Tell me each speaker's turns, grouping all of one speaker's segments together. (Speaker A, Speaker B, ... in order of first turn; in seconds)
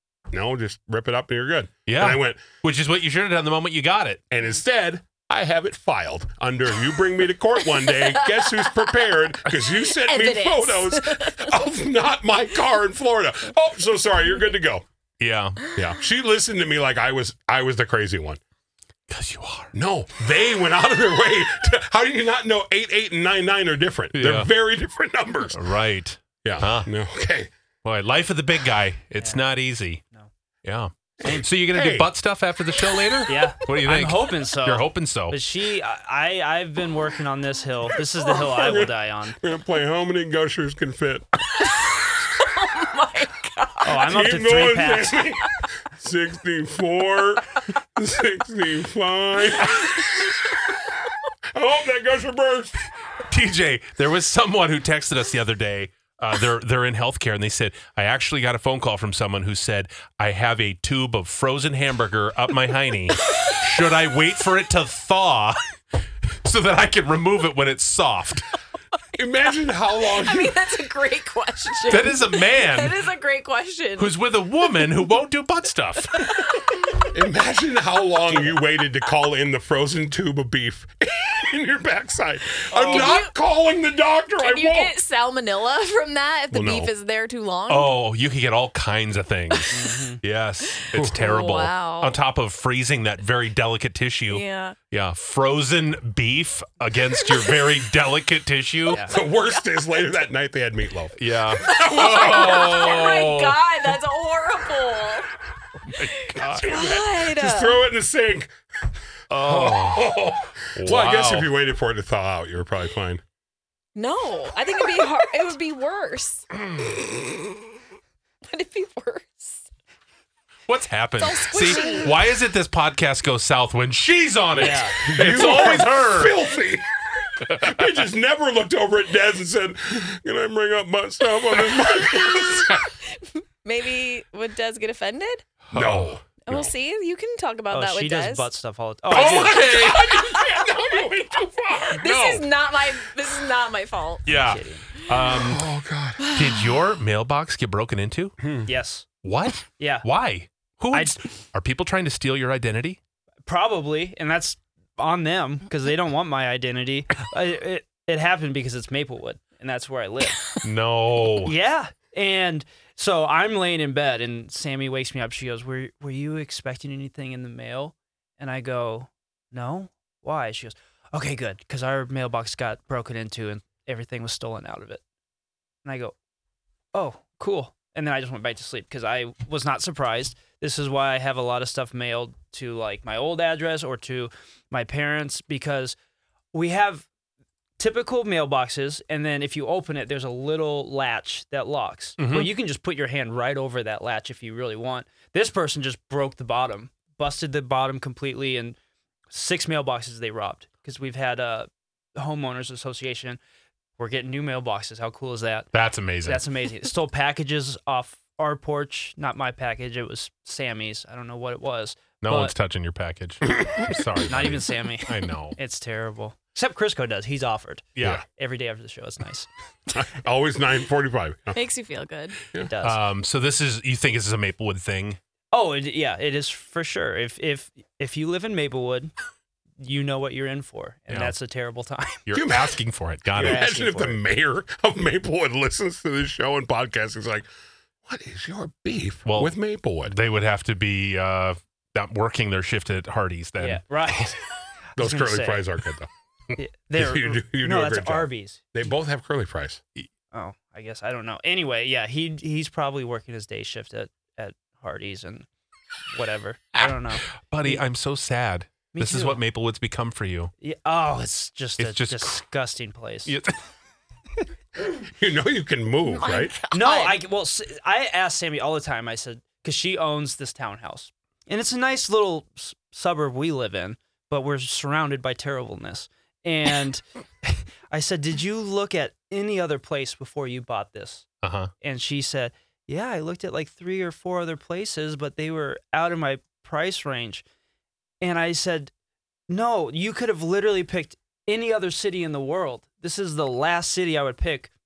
Speaker A: 0.3-2.4, 4.3-14.8, 15.8-18.4, 19.7-25.6, 26.4-27.5, 31.2-32.1, 38.3-41.3, 44.0-50.3, 51.5-52.8, 69.2-70.6, 77.1-85.0, 86.5-86.9, 99.1-103.2, 106.4-108.5, 109.3-113.2, 124.7-126.8, 127.5-132.8, 135.7-136.7, 139.1-142.0, 145.2-146.2, 148.4-148.7, 219.9-221.6, 232.3-232.8, 233.3-237.5, 238.1-240.2, 245.0-246.1, 247.0-249.8, 265.1-266.6
Speaker B: 1.9-4.3, 15.2-15.6, 19.1-19.7, 24.1-24.5, 25.5-26.9, 27.8-30.0, 30.6-35.4, 53.3-65.6, 66.4-68.5, 71.9-73.0, 74.0-76.4, 87.7-99.1, 101.2-103.6, 106.0-106.6, 109.3-110.2, 110.8-111.5, 120.7-126.5, 135.7-136.2, 139.1-140.3, 142.0-142.4, 144.3-145.7, 146.3-148.4, 149.2-153.0, 160.6-161.5, 192.2-192.5, 205.7-206.4, 212.2-215.6, 218.0-218.2, 222.8-225.2, 231.1-231.3, 232.3-233.7, 239.3-244.3, 256.8-260.5, 261.8-262.4, 263.3-263.6, 281.4-281.7
Speaker C: 9.9-11.6, 41.7-44.0, 70.2-74.1, 76.2-76.8, 82.8-83.3, 84.4-87.9, 90.7-92.2, 94.3-94.8, 99.1-99.7, 101.7-105.3, 106.0-107.8, 114.0-116.5, 118.5-119.7, 121.2-122.1, 132.6-135.4, 136.4-138.5, 139.9-140.9, 142.0-144.3, 146.2-146.7, 221.5-222.4, 266.1-267.2
Speaker D: 33.3-39.4, 43.9-45.2, 89.7-90.2, 124.6-125.0, 137.7-139.6, 144.3-144.9, 148.7-149.1, 149.8-150.1, 150.9-151.2, 153.5-160.5, 161.4-175.0, 175.8-176.1, 176.9-186.0, 186.5-187.1, 187.8-198.8, 199.3-203.4, 204.0-205.7, 206.2-212.5, 214.3-219.5, 222.7-223.0, 225.5-229.1, 229.8-232.3, 233.4-234.2, 243.6-244.4, 245.0-245.7, 246.6-248.7, 250.3-255.5, 256.1-257.8, 258.9-259.4, 260.6-263.4, 266.7-281.3, 281.8-287.4, 288.2-288.9, 289.5-294.7